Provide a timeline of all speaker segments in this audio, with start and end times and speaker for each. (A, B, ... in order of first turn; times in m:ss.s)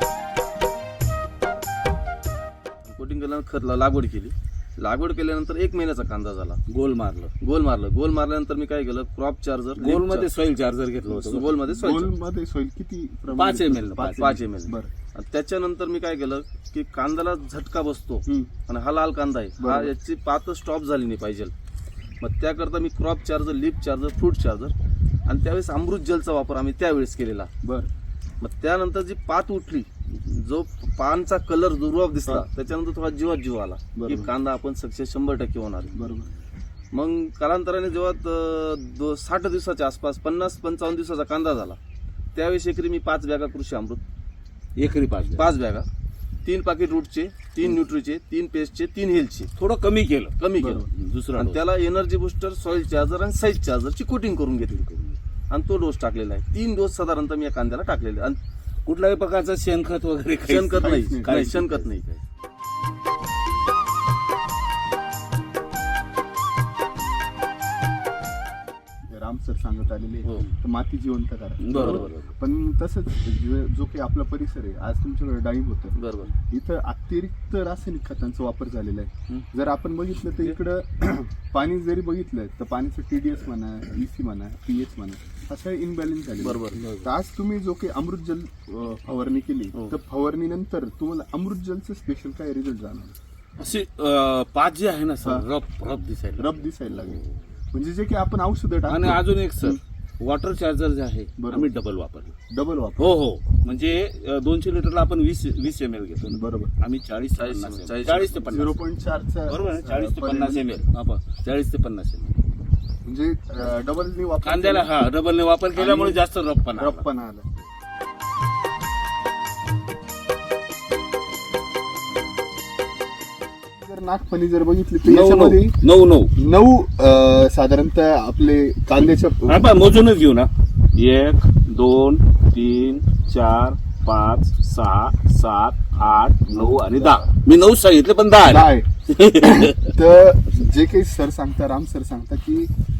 0:02.8-0:06.6 A
0:06.7-0:07.3 B
0:07.4-0:10.3 A
0:09.8-0:11.5 B
0:11.1-0:12.1 A
0:11.8-0:14.9 C
0:13.3-0:14.4 B
0:14.2-0:21.5 A
0:18.3-0:18.5 C
0:19.6-0:19.9 C
0:22.2-0:24.7 A
0:25.3-0:27.5 A
0:27.6-0:27.9 C
0:28.4-0:36.2 A
0:34.0-0:34.3 C
0:35.9-0:36.3 C
0:36.9-0:41.8 A
0:42.3-0:44.0 A
0:44.8-0:45.5 B
0:45.4-0:45.9 A
0:46.4-0:49.5 A
0:49.6-0:50.4 B
0:50.4-0:58.4 A
0:50.6-0:50.9 C
0:50.9-0:51.6 B
0:58.8-1:02.0 B
1:00.4-1:02.2 A
1:00.8-1:01.6 C
1:09.1-1:16.0 C
1:11.6-1:12.3 B
1:11.7-1:12.1 A
1:15.9-1:16.3 A
1:16.5-1:33.1 C
1:26.4-1:26.8 A
1:26.7-1:27.1 B
1:33.6-1:37.4 B
1:36.4-1:39.8 C
1:38.9-1:42.3 B
1:41.4-1:41.7 C
1:42.5-1:43.1 C
1:43.0-1:48.8 B
1:46.3-1:46.7 C
1:47.4-1:48.4 A
1:48.4-1:50.7 C
1:49.5-1:52.4 B
1:53.0-1:54.9 C
1:54.4-1:57.0 B
1:55.7-1:56.2 C
1:56.7-1:57.5 C
2:03.7-2:05.8 C
2:05.0-2:06.3 B
2:06.4-2:09.6 C
2:09.4-2:19.9 B
2:16.9-2:17.2 C
2:18.4-2:18.9 C
2:19.5-2:22.7 C